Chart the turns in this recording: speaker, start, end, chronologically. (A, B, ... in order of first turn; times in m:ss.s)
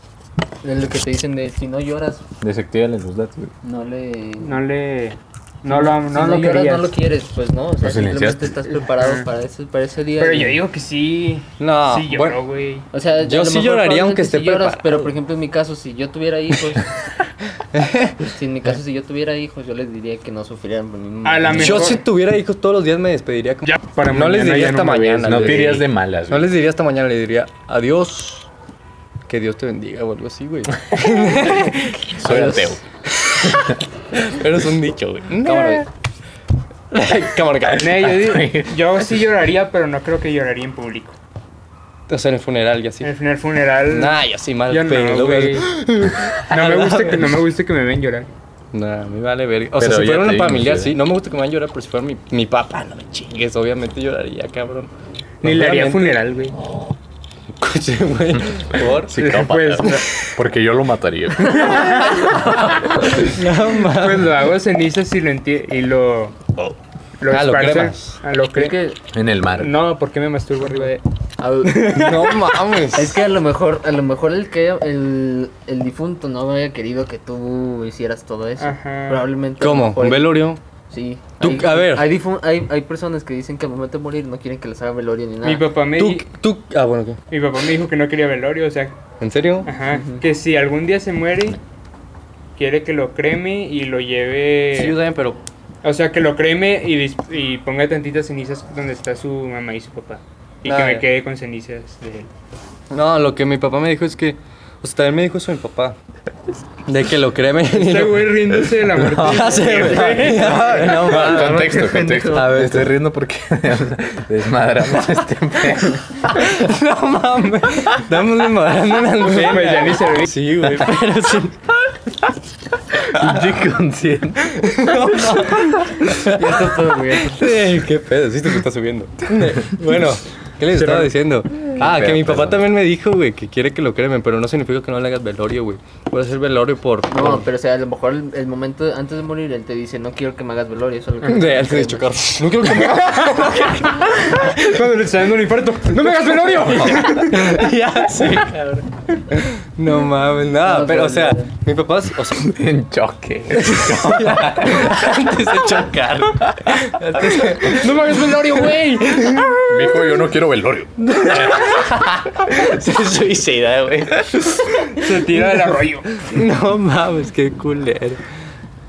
0:00.6-0:02.2 A
0:02.4-0:03.5 B
0:03.6-0:04.6 A
0:04.4-0:06.9 C
0:05.7-0:10.6 A
0:07.8-0:08.6 B
0:08.8-0:09.3 C
0:10.2-0:12.9 C
0:11.6-0:12.4 D
0:12.9-0:16.9 A
0:13.2-0:15.1 D
0:17.7-0:18.3 D
0:18.3-0:22.0 A
0:21.2-0:22.0 C
0:21.5-0:28.5 D
0:23.6-0:25.8 C
0:25.2-0:26.5 B
0:29.3-0:35.9 D
0:32.1-0:32.8 B
0:36.9-0:38.2 D
0:37.8-0:41.2 C
0:38.0-0:38.7 B
0:42.1-0:43.1 D
0:43.0-0:45.7 C
0:43.9-0:47.4 D
0:46.4-0:48.3 C
0:48.7-0:54.9 D
0:49.8-0:51.0 B
0:55.4-0:56.6 C
0:55.4-0:56.2 D
0:57.5-0:59.3 D
0:58.9-1:02.1 B
0:59.1-1:00.1 C
1:01.4-1:02.4 C
1:03.1-1:04.4 D
1:03.8-1:06.4 C
1:07.2-1:08.8 C
1:07.3-1:08.2 D
1:08.5-1:09.0 A
1:09.1-1:09.7 B
1:09.6-1:11.0 C
1:11.4-1:11.8 A
1:11.6-1:12.6 C
1:11.8-1:13.2 D
1:12.9-1:25.6 A
1:18.6-1:19.2 C
1:19.6-1:20.6 D
1:21.4-1:22.1 D
1:25.4-1:26.2 C
1:26.0-1:27.2 D
1:27.3-1:29.0 C
1:29.2-1:29.7 D
1:29.6-1:31.6 C
1:29.9-1:30.2 A
1:32.6-1:35.0 C
1:34.7-1:35.4 D
1:35.8-1:42.3 C
1:40.6-1:41.1 D
1:42.9-1:46.0 D
1:46.8-1:53.0 D
1:47.7-1:51.2 C
1:48.9-1:56.4 B
1:50.5-1:52.5 A
1:56.3-2:01.7 D
1:59.2-2:00.9 C
2:03.0-2:04.9 B
2:03.1-2:03.6 D
2:04.6-2:17.5 D
2:05.0-2:07.4 A
2:10.7-2:11.1 C
2:11.8-2:12.6 B
2:17.1-2:22.5 A
2:21.2-2:24.9 D
2:23.0-2:23.5 C
2:24.2-2:27.6 C
2:25.9-2:32.5 D
2:30.6-2:31.5 A
2:32.3-2:35.8 B
2:33.5-2:38.2 D
2:36.4-2:36.9 B
2:37.3-2:39.6 C
2:39.0-2:40.0 D
2:39.6-2:42.0 B
2:41.0-2:45.0 D
2:44.9-2:46.2 C
2:46.2-2:48.2 D